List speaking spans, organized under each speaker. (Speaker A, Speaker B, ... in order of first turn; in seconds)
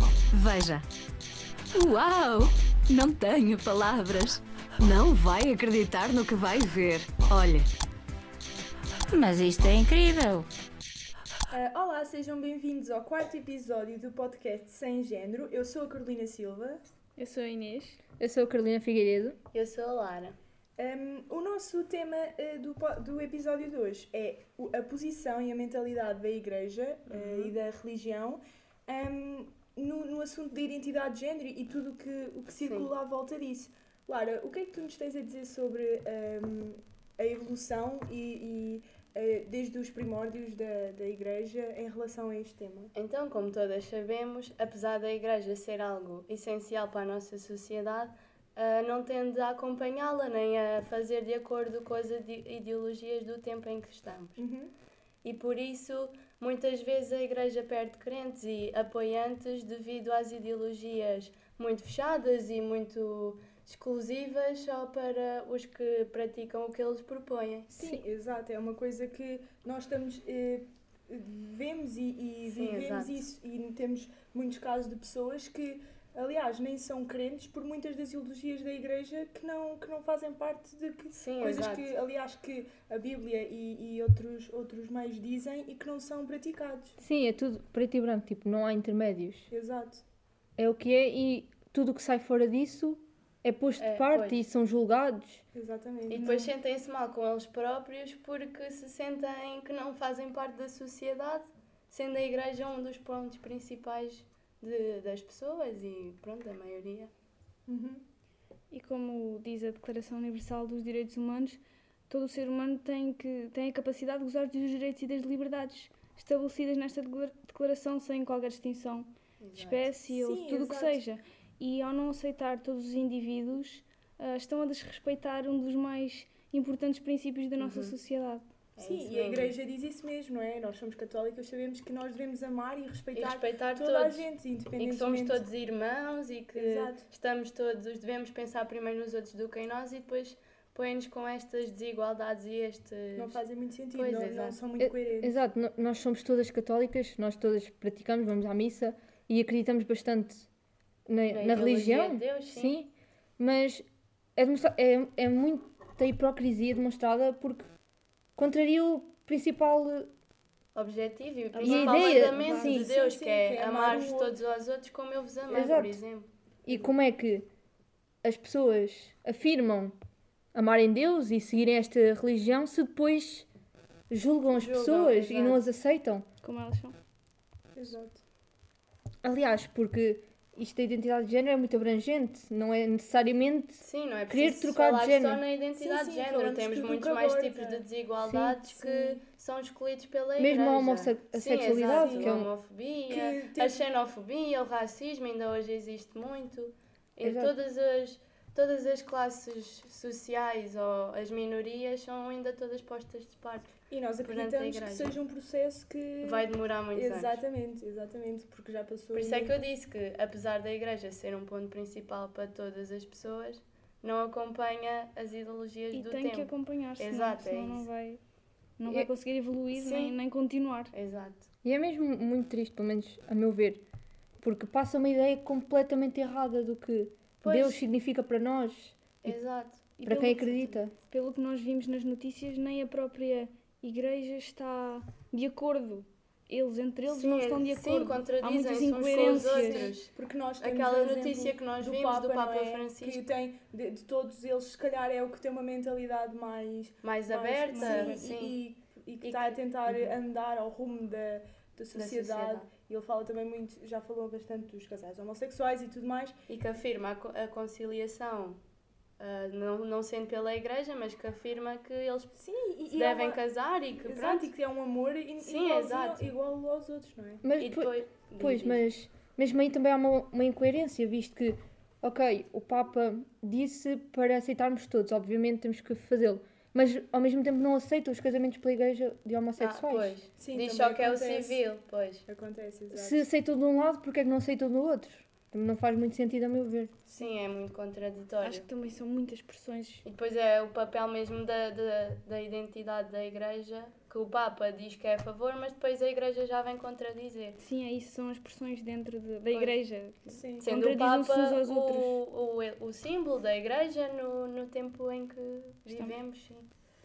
Speaker A: 0.3-0.8, 1.7-7.7
Speaker B: 11.5-16.8, 20.8-42.9, 54.4-54.7, 67.7-87.0, 89.5-90.0, 95.5-96.5, 107.7-108.0, 120.1-121.0, 128.8-135.4, 136.5-137.1, 143.2-145.4, 162.6-164.4, 177.8-178.2, 185.8-187.9, 188.6-189.2, 191.9-192.4, 193.1-193.8, 203.9-209.6, 239.4-256.4, 262.4-263.4, 264.0-267.4, 280.4-281.6, 282.3-283.2, 300.3-300.7
Speaker C: 17.2-18.0, 108.7-128.5, 161.5-162.9, 176.4-177.0, 215.9-218.2, 218.8-220.9, 230.0-239.9, 247.7-248.3, 288.4-290.1, 297.6-302.2
Speaker D: 18.2-19.4, 87.0-89.5, 90.6-95.4, 144.8-150.5, 151.1-153.8, 154.4-157.7, 158.4-160.1, 161.6-162.6, 165.5-166.0, 166.7-167.5, 168.2-170.0, 170.5-173.5, 174.1-176.2, 179.2-185.4, 188.2-188.7, 190.4-192.5, 197.2-197.5, 221.6-223.8, 224.4-229.4, 230.0-230.9, 267.4-280.2, 282.9-286.9
Speaker E: 19.5-20.4, 27.1-27.5, 32.6-32.9, 43.0-54.4, 55.2-67.9, 72.5-73.2, 81.1-81.9, 93.8-94.4, 96.1-107.1, 119.4-119.9, 127.6-127.9, 128.8-129.5, 133.1-143.4, 143.9-144.6, 151.3-152.8, 160.8-166.3, 174.5-175.7, 183.8-205.2, 206.2-207.4, 209.1-217.9, 219.8-220.2, 220.9-221.5, 227.4-227.8, 229.2-229.9, 237.1-243.2, 247.0-248.6, 249.2-250.1, 251.9-252.7, 256.5-258.6, 259.2-262.4, 262.9-264.5, 265.4-266.3, 267.6-268.8, 279.6-282.2, 287.1-288.7, 290.1-297.6, 299.5-299.8, 300.6-306.7